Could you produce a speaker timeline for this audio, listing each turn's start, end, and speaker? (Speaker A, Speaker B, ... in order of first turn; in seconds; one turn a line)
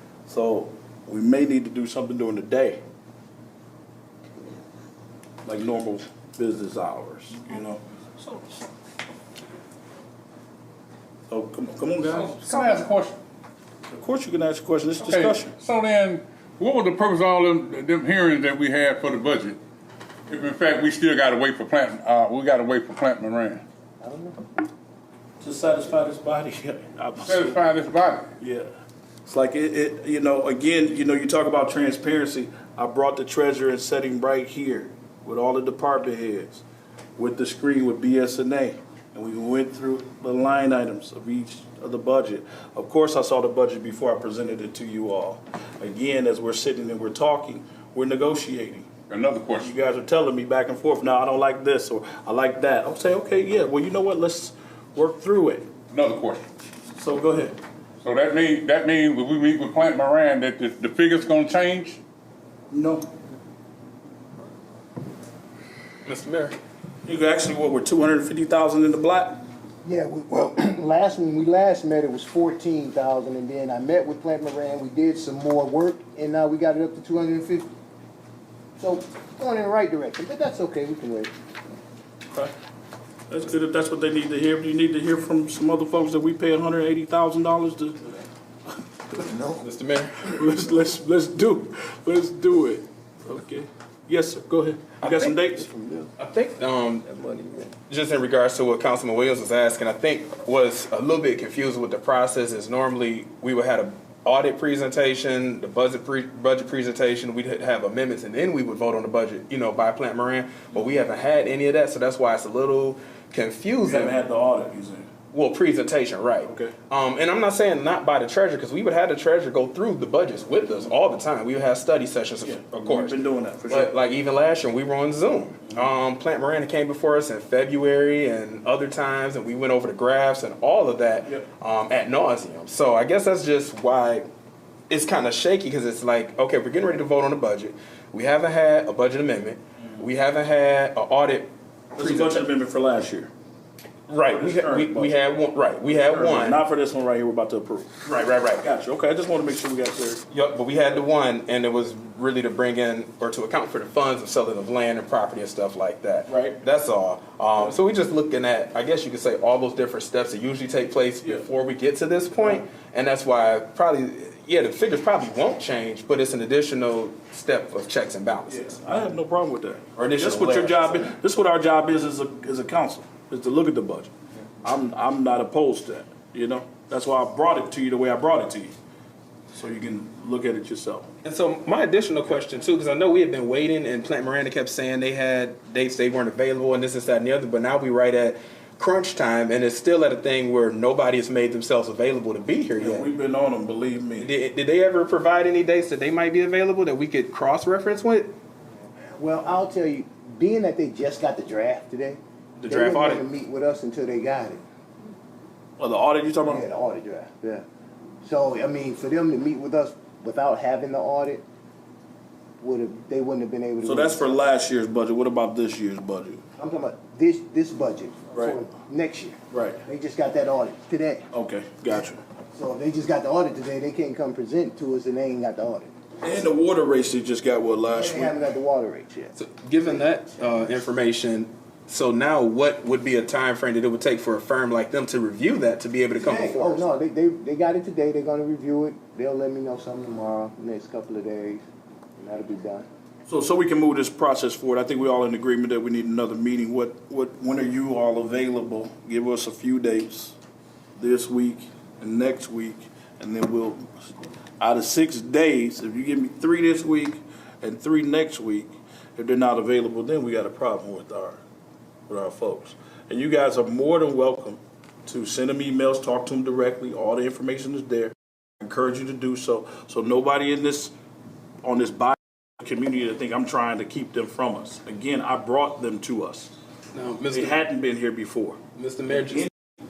Speaker A: 0.3-2.8
Speaker A: 5.4-7.8
Speaker A: 11.3-12.4
Speaker B: 12.3-13.2
Speaker A: 13.9-15.5
Speaker B: 15.0-19.6
Speaker B: 20.3-23.6
Speaker C: 24.0-24.4
Speaker A: 25.4-27.6
Speaker B: 27.2-28.3
Speaker A: 28.4-28.7
Speaker A: 29.3-36.6
Speaker A: 37.2-48.9
Speaker B: 49.1-49.7
Speaker A: 49.6-55.7
Speaker B: 55.9-56.4
Speaker A: 57.0-57.6
Speaker B: 58.0-62.0
Speaker A: 62.7-63.1
Speaker D: 66.0-66.6
Speaker A: 67.0-69.4
Speaker C: 69.8-77.7
Speaker C: 78.8-81.3
Speaker A: 83.3-88.1
Speaker D: 89.6-90.4
Speaker A: 90.2-95.7
Speaker D: 95.0-95.4
Speaker D: 96.2-114.2
Speaker A: 113.8-115.1
Speaker D: 115.3-123.2
Speaker A: 116.5-116.7
Speaker A: 122.4-123.9
Speaker D: 123.7-134.2
Speaker D: 134.9-142.4
Speaker A: 141.9-143.3
Speaker D: 144.1-146.6
Speaker A: 144.2-145.2
Speaker A: 145.9-148.0
Speaker D: 148.1-148.7
Speaker A: 148.6-150.2
Speaker D: 150.3-168.8
Speaker A: 156.3-156.6
Speaker A: 168.5-178.7
Speaker D: 170.0-171.1
Speaker A: 179.5-181.1
Speaker D: 181.2-193.1
Speaker A: 192.8-194.3
Speaker D: 194.2-198.3
Speaker C: 199.2-204.6
Speaker A: 202.6-203.2
Speaker D: 202.7-203.2
Speaker A: 205.8-206.7
Speaker C: 206.4-207.6
Speaker C: 208.2-211.4
Speaker C: 212.6-214.4
Speaker A: 213.8-216.4
Speaker C: 216.6-221.3
Speaker A: 219.5-219.8
Speaker A: 221.3-222.2
Speaker C: 222.5-225.9
Speaker A: 226.2-228.3
Speaker C: 227.9-229.3
Speaker D: 229.3-236.9
Speaker C: 236.2-241.6
Speaker C: 242.2-242.9
Speaker A: 243.3-250.4
Speaker A: 251.0-253.9
Speaker A: 254.6-261.4
Speaker A: 262.1-270.9
Speaker A: 271.6-276.5
Speaker D: 276.9-277.6
Speaker A: 277.3-279.5
Speaker D: 278.8-279.5